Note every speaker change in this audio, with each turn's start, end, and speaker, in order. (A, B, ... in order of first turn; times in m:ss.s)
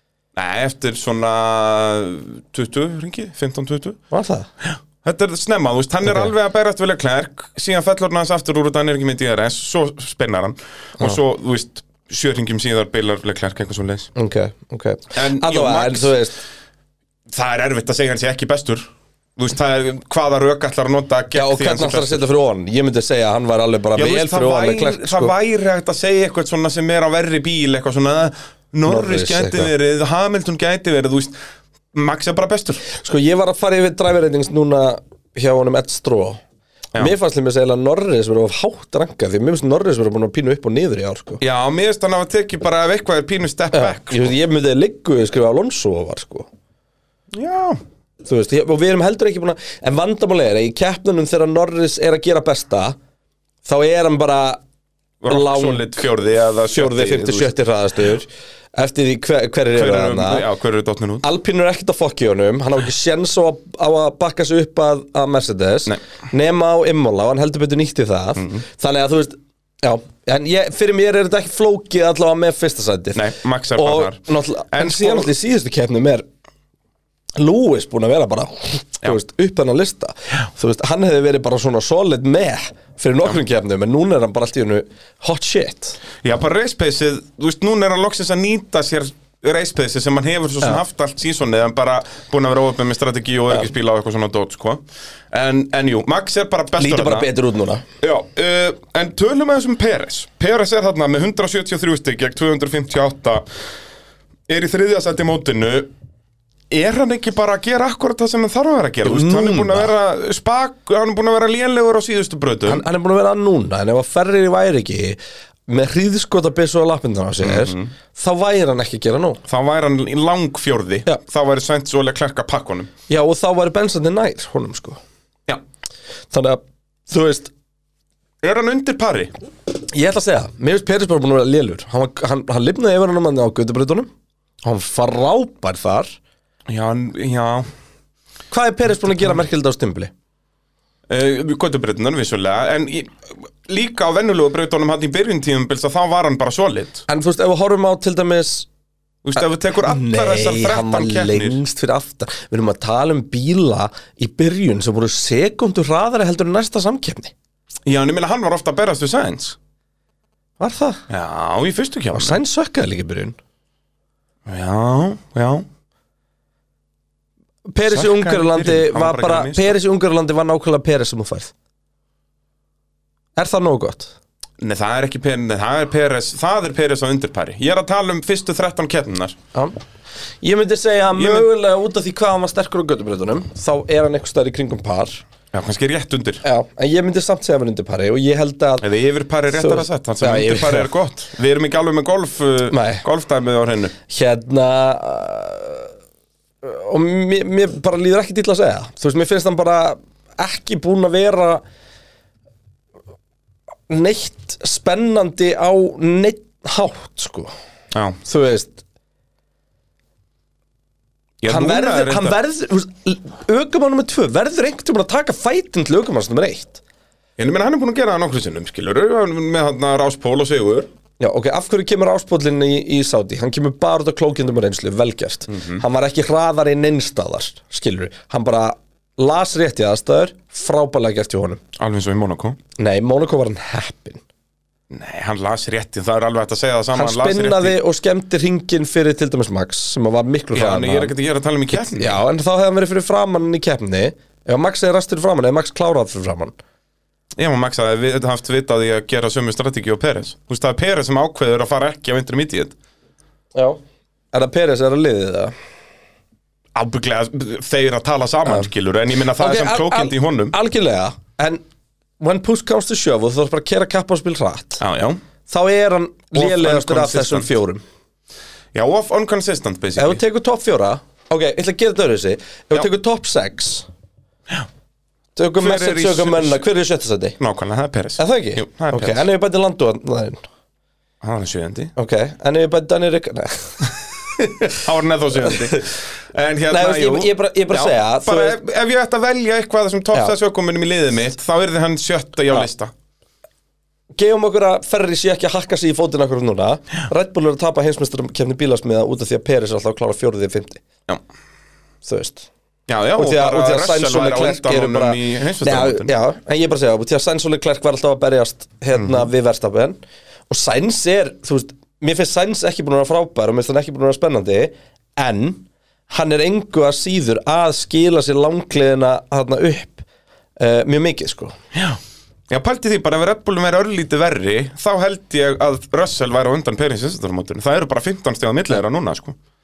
0:00.3-0:04.0 A
0:04.1-0:04.5 B
0:04.6-0:14.1 A
0:14.2-0:16.4 B
0:15.1-0:16.2 A
0:17.3-0:22.2 A
0:21.3-0:25.3 B
0:24.0-0:31.4 A
0:28.8-0:29.7 B
0:31.9-0:32.8 A
0:32.8-0:36.4 B
0:37.0-0:41.4 B
0:41.4-0:44.3 A
0:43.7-0:46.5 B
0:47.3-0:47.8 A
0:48.2-0:53.0 B
0:53.6-0:54.6 B
0:55.2-0:57.5 A
0:55.3-0:56.1 B
0:56.7-1:00.4 B
0:59.7-1:01.2 A
1:01.2-1:16.2 B
1:13.1-1:14.2 A
1:14.7-1:15.3 A
1:17.4-1:26.0 B
1:26.2-1:37.3 A
1:36.8-1:37.8 B
1:38.0-1:43.4 A
1:44.5-1:45.9 A
1:46.7-1:52.8 A
1:49.0-1:49.9 B
1:52.6-1:59.4 B
1:57.4-1:57.9 A
1:59.5-2:02.9 A
2:03.1-2:05.0 B
2:06.3-2:07.5 B
2:08.4-2:09.3 A
2:09.9-2:14.1 B
2:14.6-2:16.2 B
2:16.7-2:17.7 A
2:18.5-2:20.1 B
2:21.1-2:27.0 A
2:27.1-2:28.7 B
2:29.2-2:31.6 A
2:29.8-2:37.3 B
2:37.8-2:39.6 A
2:40.6-2:41.0 B
2:41.1-2:42.4 A
2:42.1-2:43.4 B
2:44.4-2:45.6 A
2:47.7-2:51.5 B
2:47.9-2:49.8 A
2:53.4-2:54.1 B
2:54.6-2:59.4 A
3:00.4-3:05.2 B
3:01.2-3:01.5 A
3:05.5-3:06.4 A
3:06.4-3:08.8 B
3:08.8-3:13.9 A
3:09.5-3:10.9 B
3:12.7-3:13.0 B
3:14.1-3:15.9 B
3:16.6-3:21.6 B
3:23.9-3:27.5 B
3:27.9-3:28.2 A
3:28.2-3:28.8 B
3:31.4-3:32.4 A
3:31.5-3:36.8 B
3:37.4-3:40.9 A
3:41.2-3:51.6 B
3:45.5-3:45.8 A
3:51.8-3:52.6 A
3:52.8-3:54.2 B
3:54.9-3:57.8 A
3:56.9-4:01.1 B
4:00.5-4:02.2 A
4:01.7-4:06.5 B
4:07.4-4:12.7 A
4:13.5-4:13.8 B
4:14.3-4:15.5 B
4:16.7-4:20.5 A
4:19.4-4:21.6 B
4:22.2-4:24.8 B
4:24.8-4:25.2 A
4:25.5-4:27.8 B
4:26.3-4:27.5 A
4:28.7-4:30.2 A
4:30.0-4:33.9 B
4:35.4-4:37.4 B
4:35.6-4:36.6 A
4:37.4-4:39.2 A
4:38.2-4:40.4 B
4:41.2-4:41.9 A
4:42.0-4:44.8 B
4:44.7-4:52.9 A
4:45.3-4:45.7 B
4:46.7-4:48.6 B
4:54.1-5:00.8 B
5:02.0-5:02.5 B
5:02.9-5:06.1 A
5:03.2-5:10.0 B
5:08.9-5:09.3 A
5:10.5-5:20.0 B
5:20.6-5:21.6 B
5:21.7-5:22.0 A
5:22.5-5:29.4 A